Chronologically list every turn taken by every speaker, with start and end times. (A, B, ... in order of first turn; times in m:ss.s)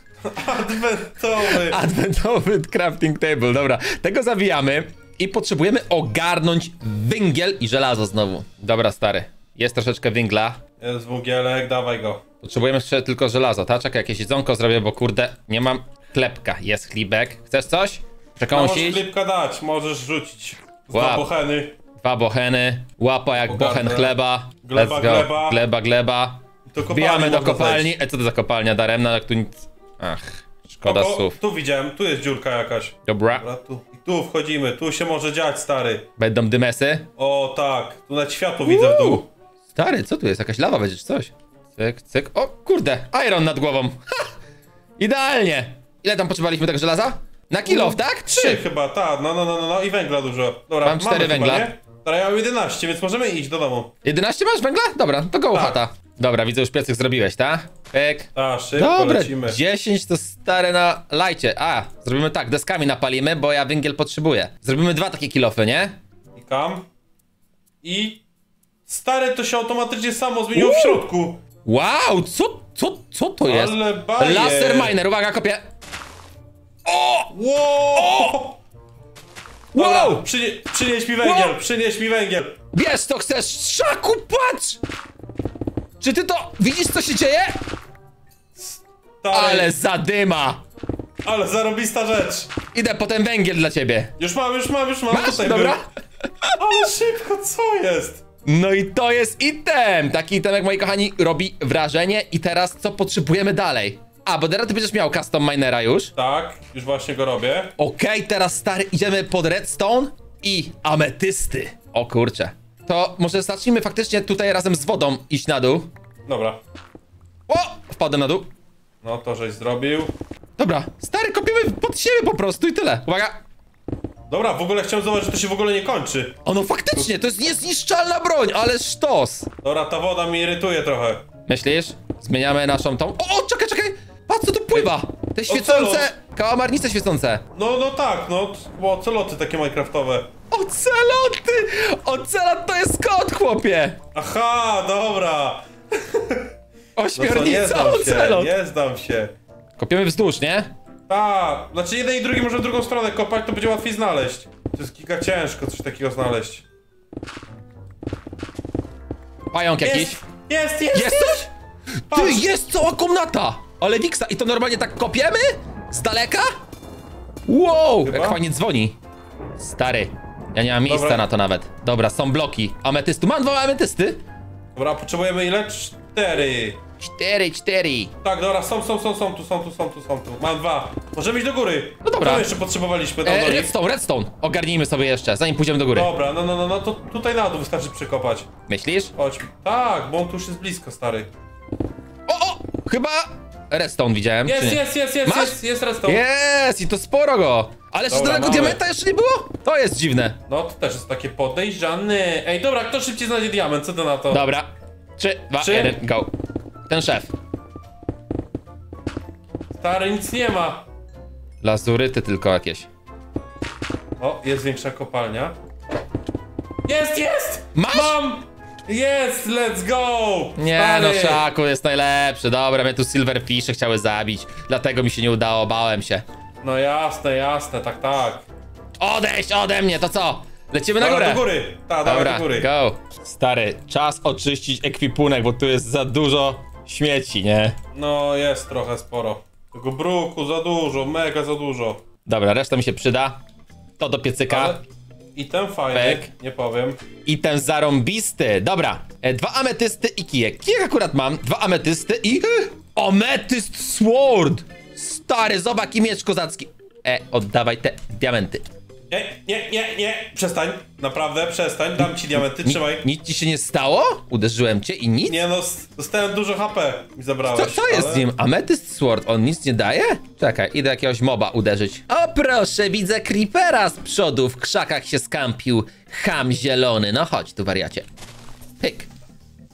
0:00.2-0:01.8 A
0:01.5-0:10.6 B
0:10.8-0:12.2 A
0:12.4-0:19.0 B
0:18.5-0:21.7 A
0:20.9-0:21.2 B
0:22.0-0:31.4 B
0:23.4-0:25.6 A
0:26.7-0:27.9 A
0:30.8-0:36.0 A
0:33.1-0:33.4 B
0:36.2-0:37.1 B
0:37.2-0:39.3 A
0:38.6-0:39.2 B
0:39.7-0:44.2 B
0:45.0-0:48.6 B
0:47.6-0:53.9 A
0:50.8-0:51.7 B
0:54.0-1:06.0 B
0:55.5-0:55.8 A
0:58.3-0:59.6 A
1:06.4-1:06.9 A
1:07.8-1:08.2 A
1:08.9-1:11.4 A
1:10.5-1:11.0 B
1:11.6-1:15.6 B
1:13.4-1:15.0 A
1:16.8-1:17.3 B
1:17.3-1:18.6 A
1:17.9-1:18.4 B
1:19.7-1:20.2 B
1:19.7-1:22.6 A
1:21.2-1:21.6 B
1:22.7-1:24.8 B
1:26.0-1:27.6 B
1:28.5-1:29.7 A
1:29.3-1:30.6 B
1:31.2-1:32.5 A
1:32.7-1:34.1 B
1:34.2-1:35.8 A
1:35.1-1:36.6 B
1:36.6-1:38.2 A
1:38.4-1:46.1 B
1:46.2-1:47.7 A
1:47.8-1:55.9 B
1:56.2-1:56.6 A
1:57.5-1:58.5 B
1:59.0-2:00.1 A
2:00.6-2:03.4 B
2:04.3-2:06.4 A
2:06.4-2:09.5 B
2:09.6-2:11.2 A
2:11.5-2:17.4 B
2:15.5-2:16.1 A
2:17.5-2:20.3 A
2:20.5-2:24.0 B
2:24.1-2:26.5 A
2:27.0-2:28.5 B
2:27.1-2:29.3 A
2:29.8-2:30.7 B
2:31.1-2:36.6 A
2:39.5-2:40.2 B
2:39.8-2:41.5 A
2:40.9-2:41.5 B
2:42.1-2:46.5 B
2:42.1-2:42.5 A
2:47.4-2:49.0 B
2:48.0-2:48.4 A
2:49.6-2:54.2 B
2:50.9-2:51.2 A
2:54.7-2:56.8 A
2:57.0-2:58.1 B
2:58.2-3:03.7 A
3:02.0-3:02.5 B
3:03.2-3:06.1 B
3:05.9-3:08.5 A
3:08.7-3:09.1 B
3:09.2-3:11.3 A
3:12.3-3:20.4 B
3:14.4-3:16.2 A
3:18.1-3:18.8 A
3:20.5-3:24.4 A
3:24.3-3:26.3 B
3:25.6-3:26.0 A
3:26.9-3:27.3 B
3:29.8-3:30.8 A
3:31.6-3:32.8 B
3:34.2-3:35.6 A
3:36.8-3:41.4 A
3:37.7-3:38.2 B
3:40.6-3:46.2 B
3:46.6-3:48.4 A
3:49.0-3:51.4 B
3:51.0-3:52.7 A
3:52.0-3:57.8 B
3:57.9-4:02.0 A
4:02.2-4:03.4 B
4:04.0-4:04.8 B
4:04.5-4:04.8 A
4:05.3-4:07.0 A
4:05.9-4:06.3 B
4:07.2-4:18.6 B
4:19.1-4:23.0 A
4:22.0-4:25.4 B
4:25.2-4:28.2 A
4:27.5-4:38.1 B
4:38.8-4:39.1 B